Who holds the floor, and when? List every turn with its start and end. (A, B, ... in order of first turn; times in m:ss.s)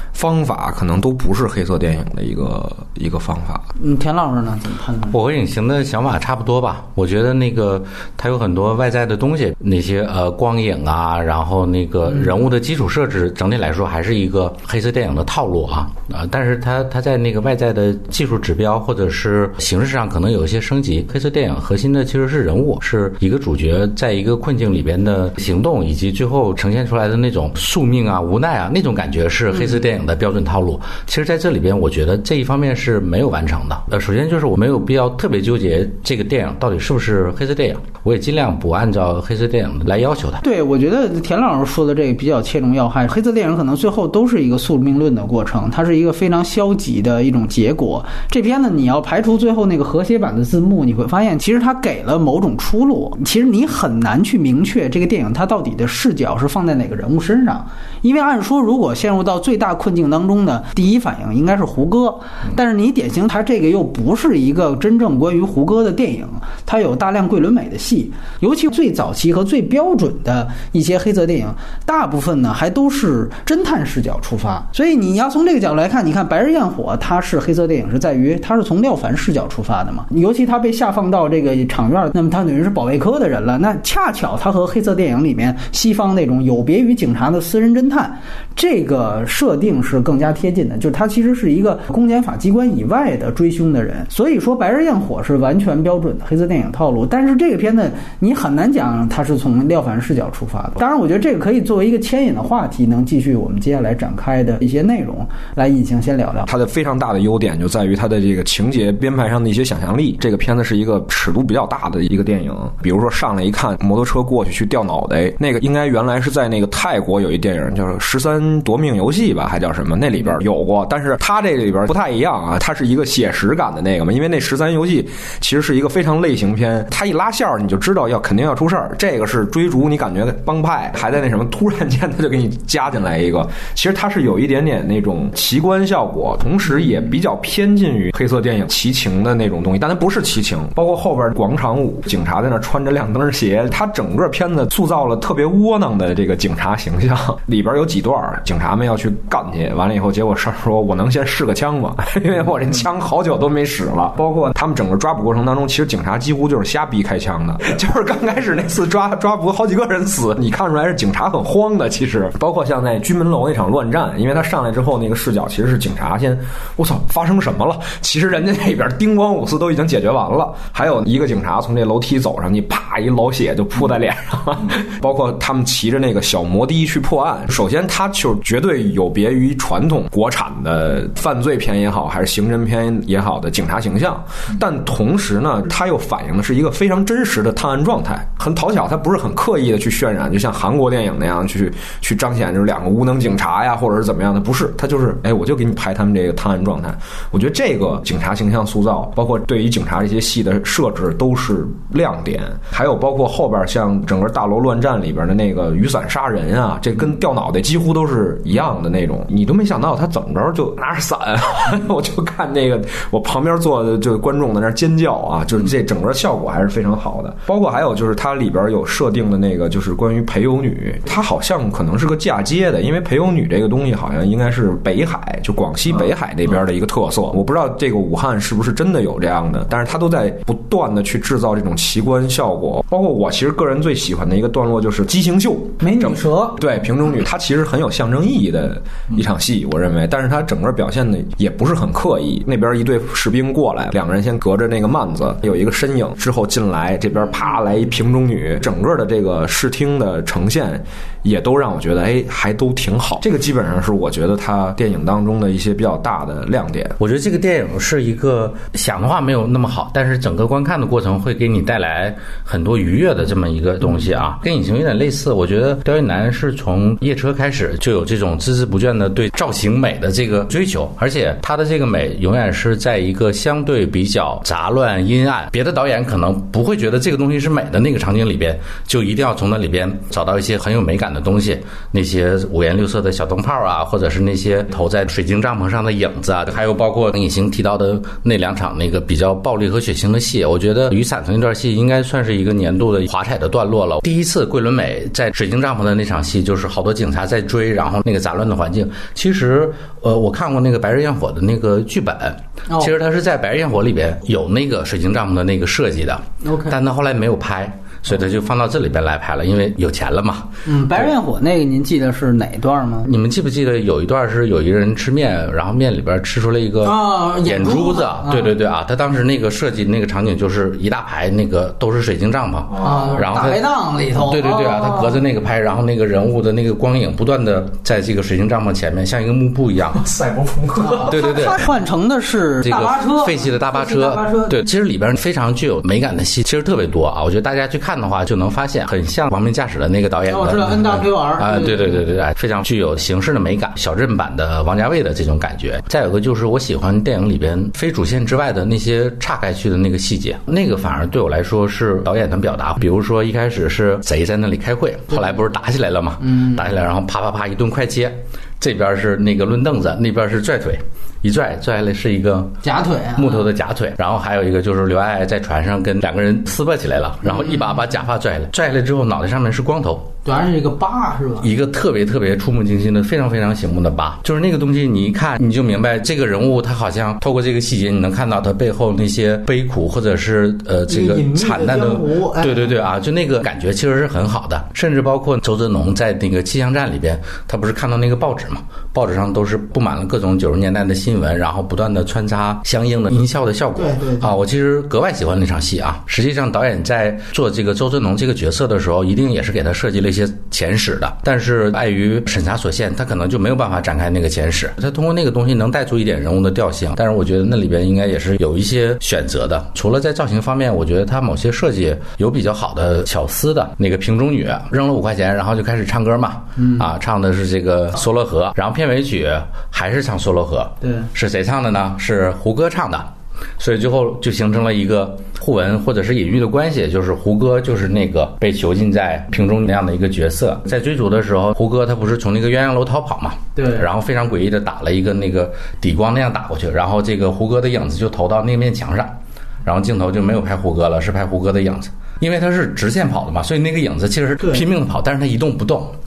0:00.1-0:03.6 A
0:03.8-0:05.2 B
0:05.1-0:40.4 C
0:40.4-1:46.5 B
1:46.5-4:17.0 A
3:55.8-3:56.6 B
4:17.0-5:11.1 C
5:02.7-5:02.9 B
5:06.4-5:06.8 B
5:10.6-5:13.1 B
5:13.0-5:23.7 C
5:16.8-5:18.5 B
5:22.8-5:25.2 B
5:24.2-5:30.2 C
5:30.2-5:34.6 B
5:31.0-5:31.6 C
5:32.6-6:02.6 C
5:40.3-5:41.9 B
5:56.2-5:56.6 B
6:02.6-6:03.4 B
6:03.2-6:10.1 C
6:07.3-6:07.6 B
6:10.2-6:11.5 B
6:11.4-7:26.0 C
6:20.9-6:22.7 B
6:33.8-6:34.3 B
7:00.8-7:01.1 B
7:13.6-7:13.8 B